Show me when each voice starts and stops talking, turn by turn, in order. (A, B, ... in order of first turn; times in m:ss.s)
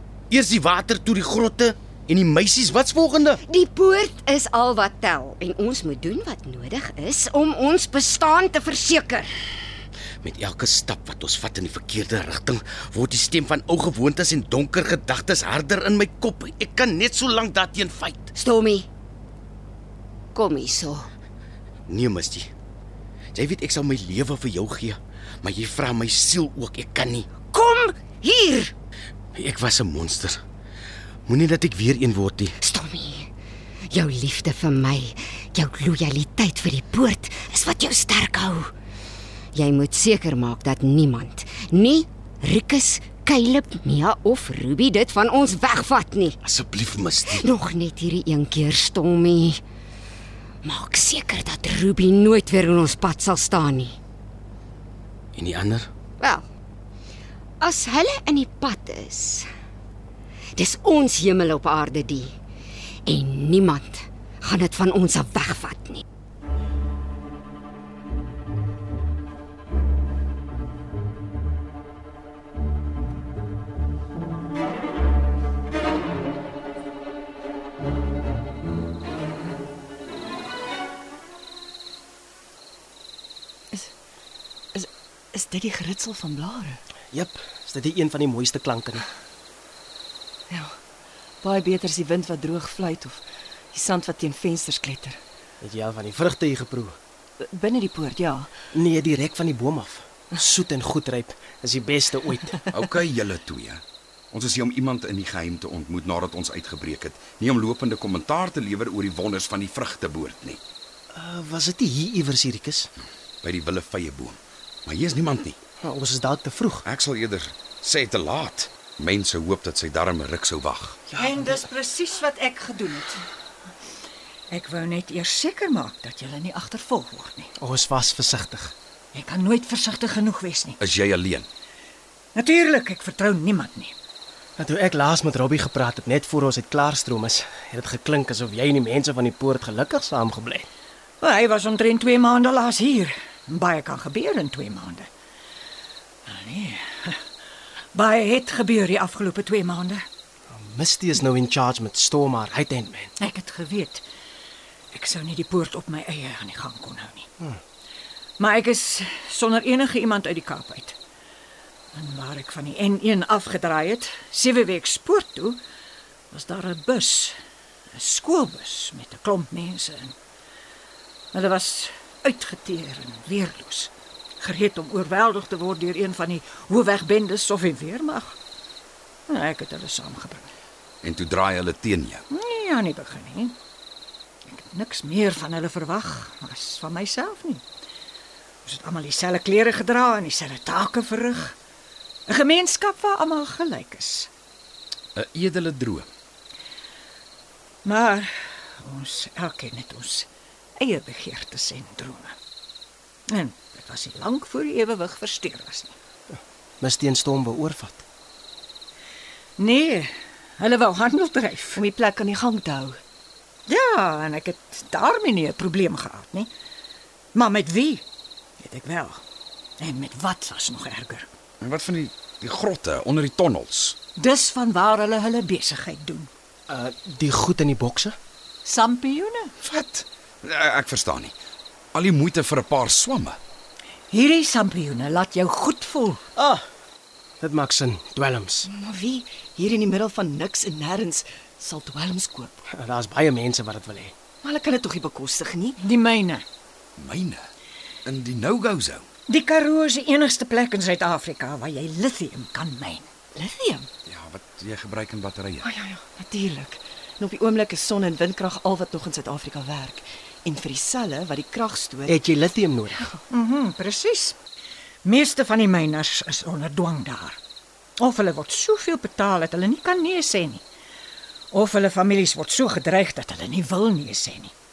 0:00.3-0:03.4 A
0:03.4-0:09.3 B
0:10.2-0:18.3 A
0:18.4-0:18.9 B
0:20.3-0:21.1 B
0:21.9-0:22.5 A
0:23.3-0:27.3 A
0:27.4-0:28.7 B
0:29.3-0:30.4 A
0:31.3-0:32.5 A
0:32.6-0:33.3 B
0:33.9-0:38.7 B
0:39.5-0:46.4 B
0:46.4-0:47.4 A
0:47.2-0:49.6 B
0:50.6-0:54.0 B
0:55.4-0:55.9 A
0:56.2-0:56.4 B
0:57.6-0:59.4 B
1:00.6-1:02.3 B
1:03.1-1:06.0 B
1:24.7-1:26.8 C
1:27.1-1:29.1 D
1:30.5-1:30.8 C
1:31.4-1:35.2 C
1:35.6-1:37.0 D
1:37.4-1:38.5 C
1:38.7-1:42.6 D
1:42.7-1:50.6 E
1:51.1-1:52.9 D
1:53.4-1:55.6 E
1:55.8-1:56.8 D
1:56.8-2:01.0 E
2:01.1-2:01.6 D
2:01.2-2:03.2 F
2:04.5-2:07.5 F
2:07.6-2:08.7 D
2:09.1-2:10.8 F
2:10.8-2:11.5 E
2:12.3-2:13.9 F
2:14.6-2:20.7 D
2:21.2-2:25.1 F
2:26.2-2:27.2 F
2:27.9-2:30.0 F
2:30.5-2:33.1 D
2:33.2-2:34.0 F
2:34.9-2:37.3 F
2:38.4-2:41.0 F
2:41.9-2:45.6 F
2:46.3-2:47.4 F
2:47.9-2:50.2 F
2:51.3-2:58.4 F
2:59.3-3:00.5 F
3:01.0-3:02.2 E
3:02.3-3:03.6 F
3:04.5-3:07.6 F
3:08.6-3:11.5 F
3:12.3-3:14.3 F
3:15.1-3:16.1 E
3:17.8-3:20.3 F
3:20.8-3:22.3 F
3:23.3-3:25.9 F
3:26.8-3:28.0 D
3:29.6-3:31.8 F
3:31.8-3:33.0 C
3:33.7-3:36.5 F
3:37.3-3:38.0 F
3:38.6-3:39.2 F
3:39.8-3:41.3 F
3:41.6-3:44.0 E
3:44.2-3:46.3 F
3:46.7-3:48.2 D
3:48.6-3:49.5 F
3:49.6-3:51.3 E
3:51.9-3:53.4 E
3:54.1-3:56.2 F
3:56.4-3:56.6 D
3:57.4-3:58.7 D
3:58.6-4:02.6 C
4:02.7-4:04.1 D
4:04.4-4:05.8 C
4:05.8-4:06.4 F
4:07.0-4:07.5 E
4:08.0-4:09.0 E
4:09.3-4:13.1 F
4:13.3-4:13.9 C
4:14.0-4:15.7 E
4:15.6-4:22.2 C
4:22.1-4:23.0 D
4:23.3-4:24.4 F
4:25.0-4:27.4 F
4:28.0-4:30.6 F
4:31.5-4:34.5 F